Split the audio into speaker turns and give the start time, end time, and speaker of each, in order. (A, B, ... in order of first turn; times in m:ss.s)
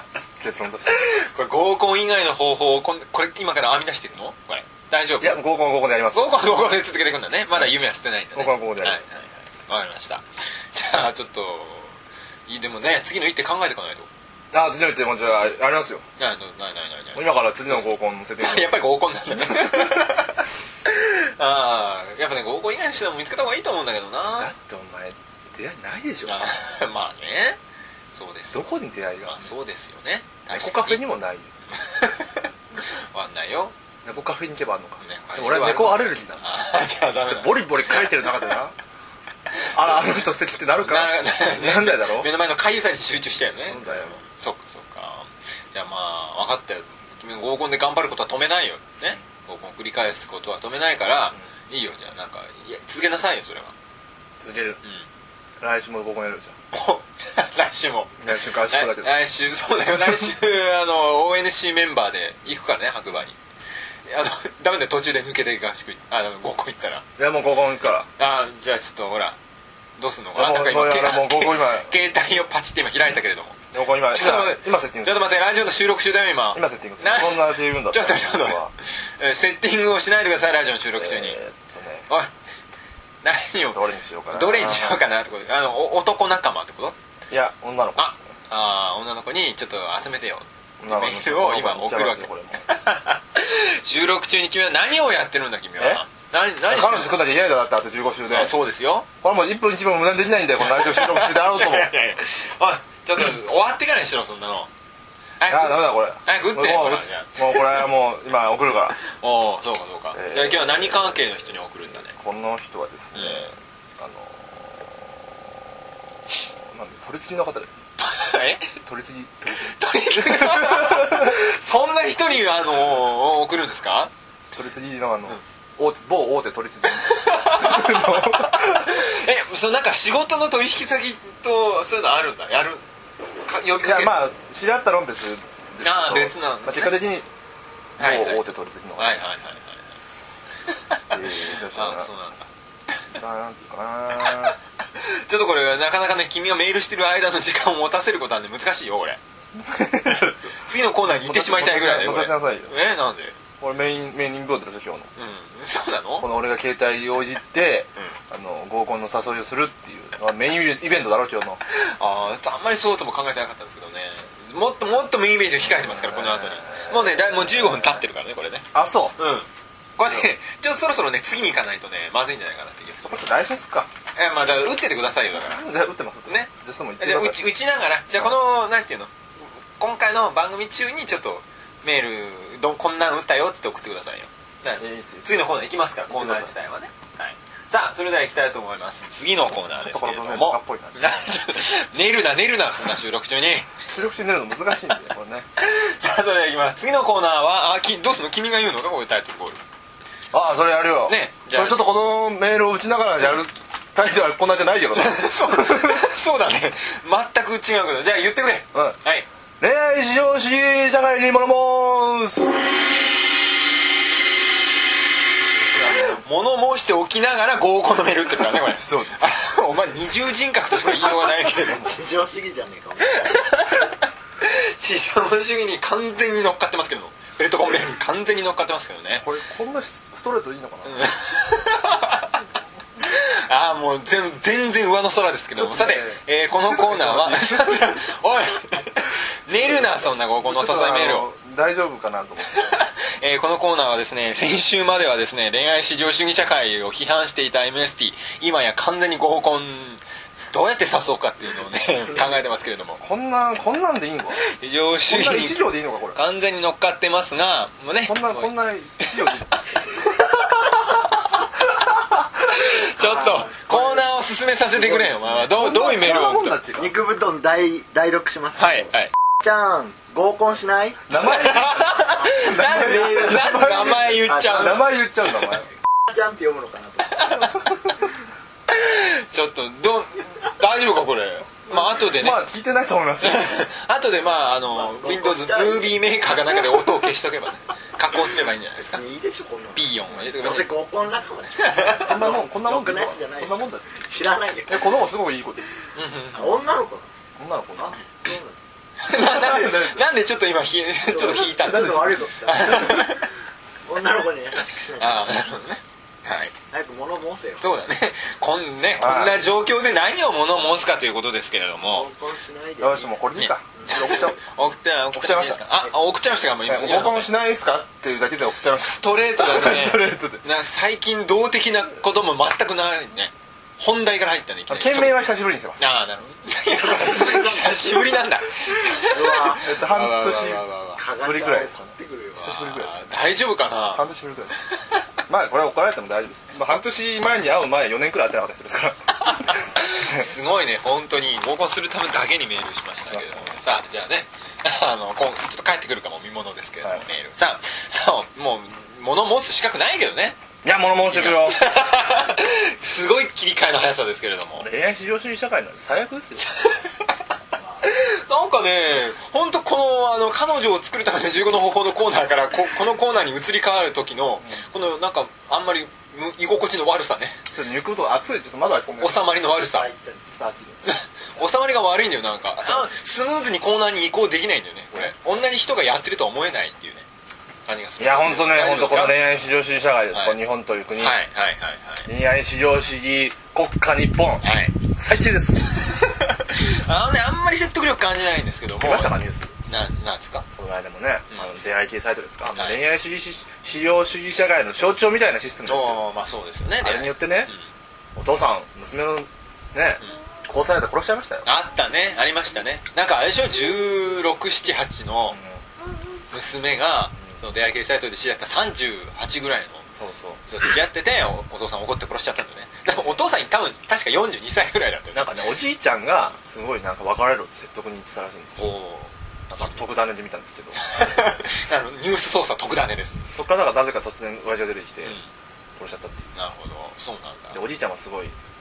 0:00.4-0:01.1 A
0:00.9-0:05.4 B
0:05.2-0:06.5 A
0:06.1-0:12.0 B
0:08.3-0:09.0 A
0:12.5-0:14.1 B
0:14.5-0:16.0 A
0:16.2-0:17.8 B
0:17.1-0:20.0 A
0:18.4-0:24.5 B
0:24.3-0:26.4 A
0:26.2-0:27.6 B
0:28.1-0:31.0 B
0:28.5-0:29.5 A
0:30.5-0:31.5 A
0:31.8-0:32.3 B
0:33.1-0:33.7 B
0:34.0-0:36.5 A
0:35.0-0:38.2 B
0:37.3-0:38.7 A
0:39.7-0:42.3 A
0:39.8-0:40.1 B
0:40.8-0:53.7 B
0:43.6-0:44.2 A
0:54.4-0:54.8 A
0:55.6-0:56.6 A
0:56.7-1:03.4 B
0:58.2-0:59.2 A
1:04.0-1:07.0 B
1:07.2-1:08.1 A
1:08.2-1:09.4 B
1:10.0-1:21.4 B
1:10.3-1:11.9 A
1:13.7-1:15.3 A
1:16.5-1:18.7 A
1:21.0-1:22.1 A
1:23.2-1:27.0 B
1:23.7-1:25.0 A
1:27.3-1:28.3 A
1:28.0-1:37.2 B
1:30.8-1:32.7 A
1:35.8-1:36.0 A
1:36.7-1:38.5 A
1:38.3-1:39.1 B
1:39.2-1:41.9 A
1:40.6-1:44.7 B
1:45.4-1:47.8 B
1:45.5-1:49.0 A
1:49.0-1:52.1 B
1:50.1-1:51.4 A
1:52.1-1:55.2 A
1:53.1-1:53.5 B
1:56.5-1:57.8 A
1:58.0-1:58.7 B
1:58.8-2:01.4 A
1:59.6-2:04.1 B
2:04.5-2:09.2 A
2:07.0-2:12.8 B
2:13.4-2:14.2 B
2:13.8-2:17.3 A
2:15.8-2:17.0 B
2:18.0-2:18.4 B
2:18.0-2:19.2 A
2:19.0-2:19.9 B
2:20.7-2:22.5 B
2:21.1-2:22.1 A
2:23.1-2:24.6 A
2:24.9-2:29.2 B
2:29.6-2:32.7 A
2:30.4-2:33.4 B
2:33.6-2:35.1 A
2:35.2-2:36.3 B
2:36.2-2:41.6 A
2:41.7-2:53.3 B
2:45.6-2:48.0 A
2:48.7-2:49.2 A
2:53.0-2:53.9 A
2:54.1-2:55.6 B
2:55.3-2:57.4 A
2:56.3-2:59.1 B
2:59.8-3:13.7 B
3:04.8-3:06.5 A
3:09.7-3:11.2 A
3:13.9-3:15.5 A
3:15.6-3:19.6 B
3:20.3-3:26.1 A
3:21.1-3:21.8 B
3:24.9-3:29.2 B
3:29.6-3:32.6 A
3:35.7-3:36.2 A
3:35.8-3:41.9 B
3:38.7-3:39.3 A
3:41.5-3:43.4 C
3:43.2-3:49.2 B
3:49.2-3:51.1 A
3:50.8-3:52.4 B
3:53.0-4:01.3 B
3:55.6-3:58.0 A
3:59.6-4:02.8 A
4:02.5-4:13.0 B
4:13.0-4:14.4 A
4:14.4-4:18.5 B
4:15.1-4:16.2 A
4:18.0-4:19.6 A
4:20.7-4:21.0 B
4:22.5-4:26.6 B
4:23.0-4:24.1 C
4:24.7-4:26.9 A
4:26.7-4:28.9 C
4:28.6-4:29.1 B
4:29.4-4:31.1 C
4:31.1-4:35.7 A
4:31.2-4:34.9 B
4:32.2-4:34.9 C
4:36.1-4:37.6 C
4:37.2-4:37.5 B
4:38.7-4:42.5 B
4:41.7-4:43.7 A
4:43.2-4:49.0 B
4:44.7-4:46.6 C
4:48.8-4:55.0 C
4:49.7-4:50.7 B
4:51.6-4:52.1 B
4:52.0-4:53.9 A
4:54.7-4:55.8 A
4:55.9-4:56.5 B
4:56.3-4:57.1 C
4:57.4-4:58.0 A
4:57.8-4:58.6 C
4:59.0-5:03.2 B
4:59.1-5:00.0 A
5:01.1-5:03.2 C
5:01.4-5:02.6 A
5:03.8-5:05.4 C
5:05.0-5:06.5 B
5:06.7-5:07.7 C
5:07.6-5:12.1 B
5:09.0-5:09.4 A
5:11.9-5:13.2 C
5:12.8-5:14.4 A
5:13.4-5:17.3 B
5:13.8-5:14.2 C
5:15.1-5:15.6 A
5:16.6-5:20.4 A
5:18.8-5:25.2 B
5:24.7-5:25.8 A
5:25.8-5:31.0 B
5:26.8-5:28.0 C
5:29.0-5:29.7 C
5:29.6-5:30.6 A
5:31.0-5:32.5 C
5:31.2-5:33.2 A
5:32.4-5:34.1 B
5:33.9-5:34.6 A
5:34.7-5:35.0 B
5:35.3-5:40.2 A
5:39.2-5:50.4 B
5:43.0-5:43.6 A
5:50.6-5:51.7 A
5:51.0-5:54.7 B
5:54.6-5:56.5 A
5:56.5-5:56.9 B
5:57.8-6:07.4 B
6:07.5-6:09.3 A
6:08.9-6:09.9 B
6:09.5-6:10.2 C
6:10.3-6:10.9 A
6:10.8-6:17.0 B
6:17.6-6:19.2 B
6:18.0-6:21.2 A
6:21.0-6:22.1 B
6:22.0-6:25.9 A
6:24.4-6:24.8 B
6:25.9-6:30.4 B
6:28.8-6:29.5 A
6:30.5-6:36.0 A
6:32.5-6:32.8 B
6:35.6-6:37.6 B
6:36.8-6:37.5 A
6:38.2-6:41.4 A
6:41.4-6:45.4 B
6:45.3-6:45.6 A
6:46.3-6:49.8 B
6:50.0-6:50.4 A
6:50.5-6:55.3 B
6:55.1-6:58.7 A
6:58.6-6:59.8 B
6:59.5-7:00.9 A
7:00.8-7:03.3 B
7:03.3-7:05.2 A
7:05.8-7:06.3 A
7:06.3-7:07.6 B
7:07.5-7:08.3 A